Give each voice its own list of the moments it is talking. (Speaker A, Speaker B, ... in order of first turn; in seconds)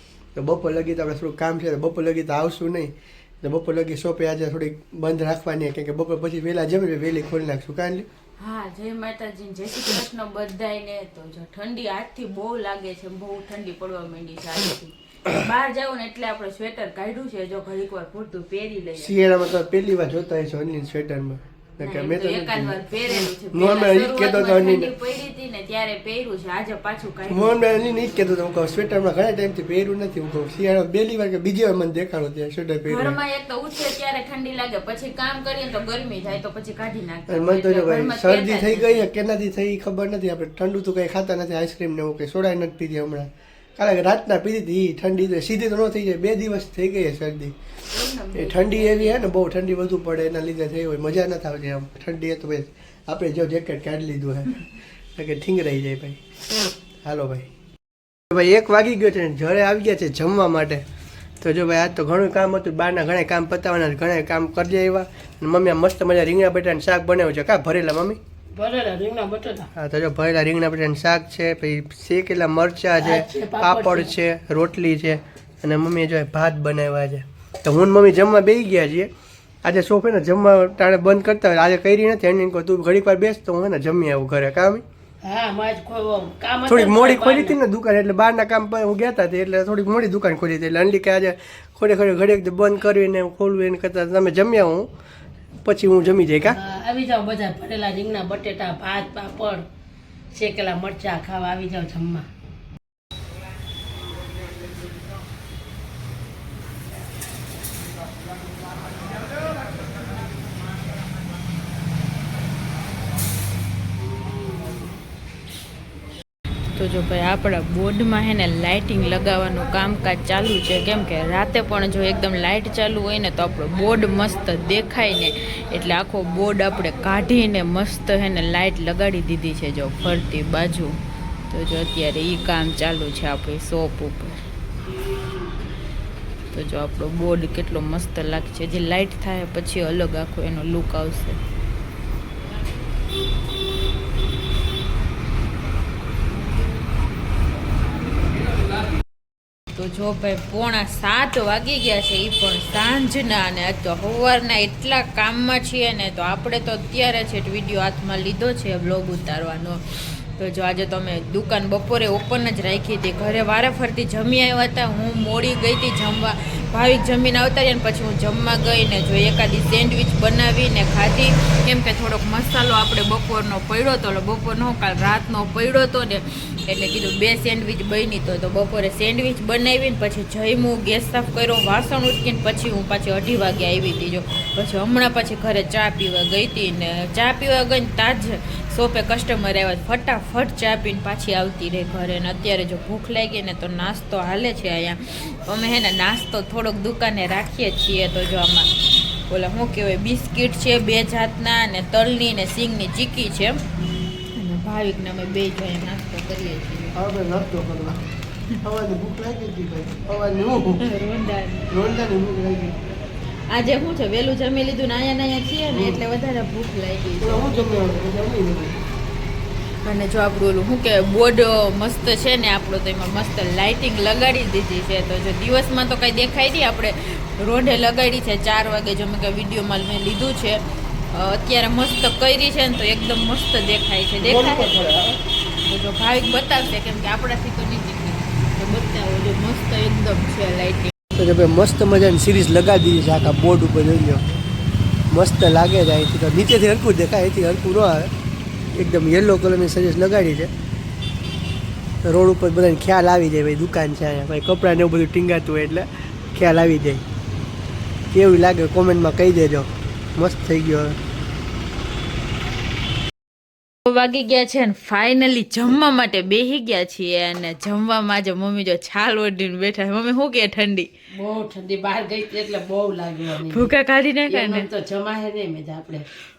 Speaker A: 0.4-8.1, 19.0-22.8, 23.5-24.9, 27.3-33.2, 37.3-47.5, 48.3-54.6, 55.2-56.2, 57.0-57.5, 58.3-60.8, 61.4-68.2, 69.8-79.1, 79.6-84.8, 86.7-94.9, 95.7-96.6, 206.9-208.1, 208.6-210.8, 211.7-212.8, 215.7-216.0, 217.2-218.8, 234.2-235.2, 241.2-244.3, 245.1-248.1, 248.8-250.5, 252.0-257.0, 258.1-261.0
Speaker B: 8.4-19.1, 21.8-27.6, 32.9-39.1, 47.9-49.3, 116.7-131.0, 131.5-134.4, 136.5-141.4, 149.7-198.7, 199.3-203.6, 204.3-207.0, 210.8-211.7, 213.5-217.7, 219.8-234.8, 235.6-240.9, 263.9-270.9, 273.4-274.7
Speaker C: 68.5-69.7, 73.0-74.1, 85.2-87.6, 96.4-99.6, 100.3-102.3, 271.1-273.7, 274.3-276.1